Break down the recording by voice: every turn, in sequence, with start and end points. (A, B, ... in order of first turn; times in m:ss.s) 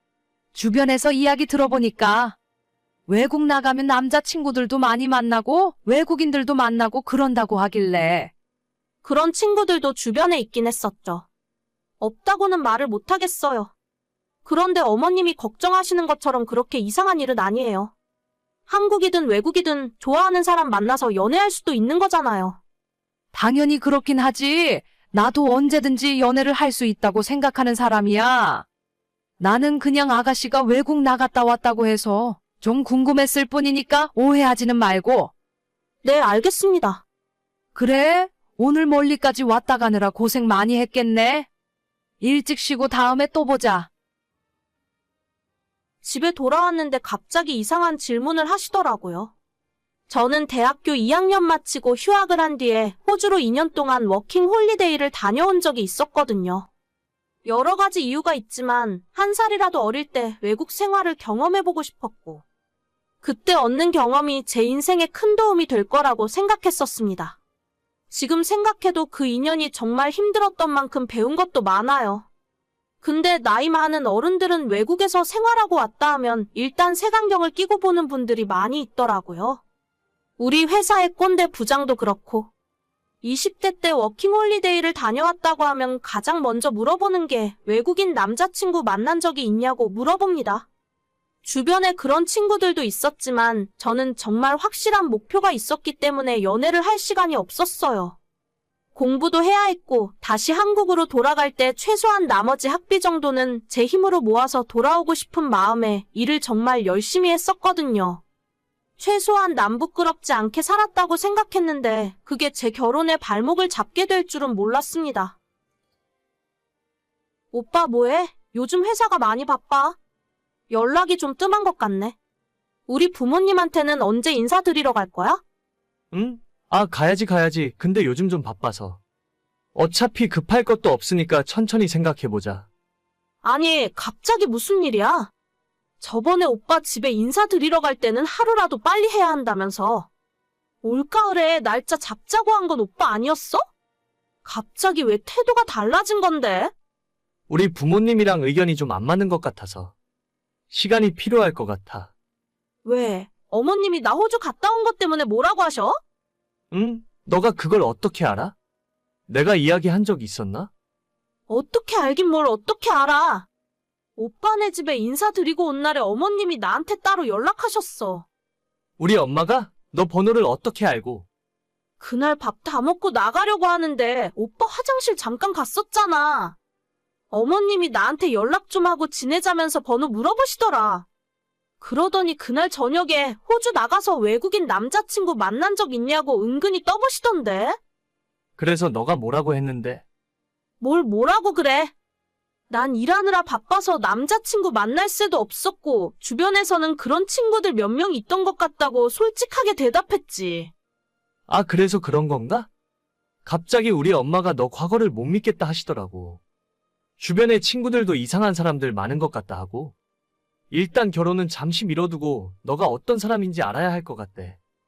0:00.5-0:02.4 A
0:03.1-0:08.3 A
0:09.0-0:11.2 B
0:12.0-0:13.7 B
0:14.4-0:17.9 B
0:18.7-0:22.6 B
0:23.3-0:28.6 A
0:29.4-0:35.3 A
0:36.0-0:37.0 B
0:37.7-0:41.5 A
0:42.2-0:43.9 A
0:46.0-0:49.3 B
0:50.1-0:56.7 B
0:57.4-1:02.4 B
1:03.2-1:07.4 B
1:08.1-1:12.3 B
1:13.0-1:19.6 B
1:20.4-1:22.5 B
1:23.2-1:30.7 B
1:31.4-1:38.2 B
1:38.9-1:48.2 B
1:49.0-1:55.4 B
1:57.5-2:00.0 B
2:00.7-2:02.2 B
2:02.9-2:05.4 B
2:06.1-2:09.0 C
2:09.7-2:12.7 C
2:13.4-2:15.3 B
2:16.0-2:20.1 B
2:20.8-2:23.6 B
2:24.4-2:26.7 B
2:27.5-2:29.9 C
2:30.7-2:32.1 C
2:32.8-2:36.0 B
2:36.7-2:38.5 C
2:39.3-2:40.7 C
2:41.5-2:43.5 B
2:44.2-2:48.2 B
2:49.0-2:51.2 C
2:52.0-2:56.6 B
2:57.3-3:01.1 B
3:01.8-3:07.8 B
3:08.6-3:10.0 C
3:10.8-3:11.9 B
3:12.7-3:20.7 B
3:21.5-3:22.7 C
3:23.4-3:26.4 C
3:27.2-3:29.9 C
3:30.7-3:34.6 C